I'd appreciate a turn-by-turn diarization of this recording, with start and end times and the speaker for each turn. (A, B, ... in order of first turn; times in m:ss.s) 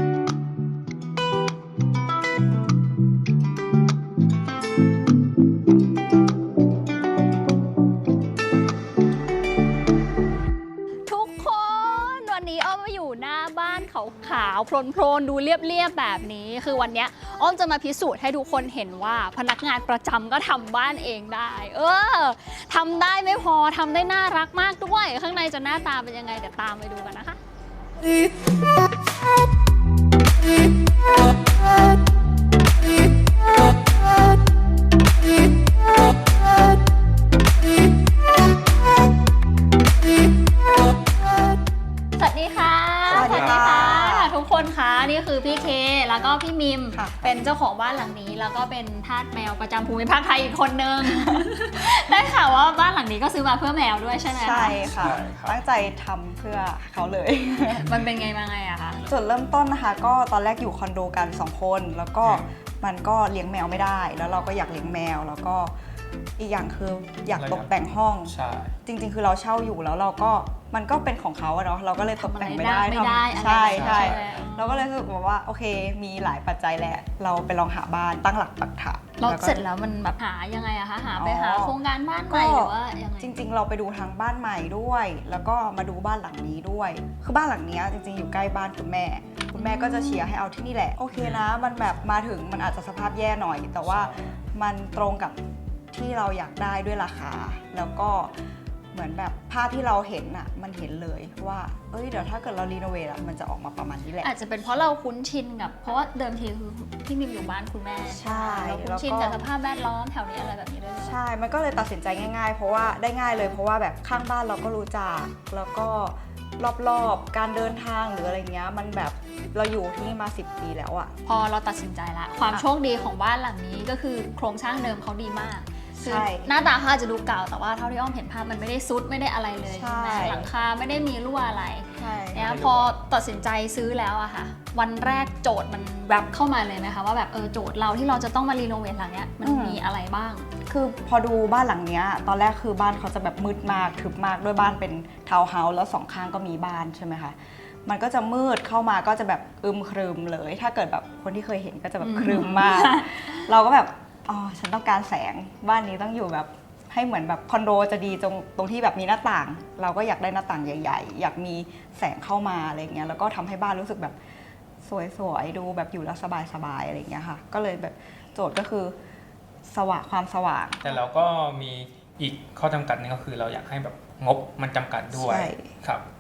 0:11.1-0:27.4 A
0:42.2-0:54.8 A
0:43.1-0:43.8 B
0:43.1-0:44.3 C
0:46.9-0:47.3 C
0:51.1-0:51.4 C
0:54.3-0:58.0 C
0:54.8-0:55.6 B
0:57.8-0:59.1 A
0:59.1-1:05.7 C
1:06.4-1:19.6 C
1:07.4-1:07.7 B
1:08.2-1:08.7 B
1:12.2-1:14.8 A
1:13.7-1:14.4 B
1:19.2-1:23.4 A
1:21.1-1:21.8 C
1:22.3-1:35.4 C
1:29.6-1:30.3 A
1:31.1-1:31.5 B
1:33.8-1:34.4 B
1:35.9-1:38.3 C
1:38.9-1:44.3 C
1:44.2-1:51.2 A
1:48.1-1:49.4 C
1:51.0-2:01.1 C
2:01.2-2:20.5 A
2:06.0-2:06.5 C
2:09.6-2:10.5 C
2:11.9-2:12.5 C
2:12.3-2:12.9 B
2:19.4-2:19.8 C
2:20.6-2:44.2 C
2:32.0-2:33.5 A
2:44.8-2:49.0 C
2:49.6-2:50.9 C
2:50.8-2:56.0 B
2:55.1-2:55.7 C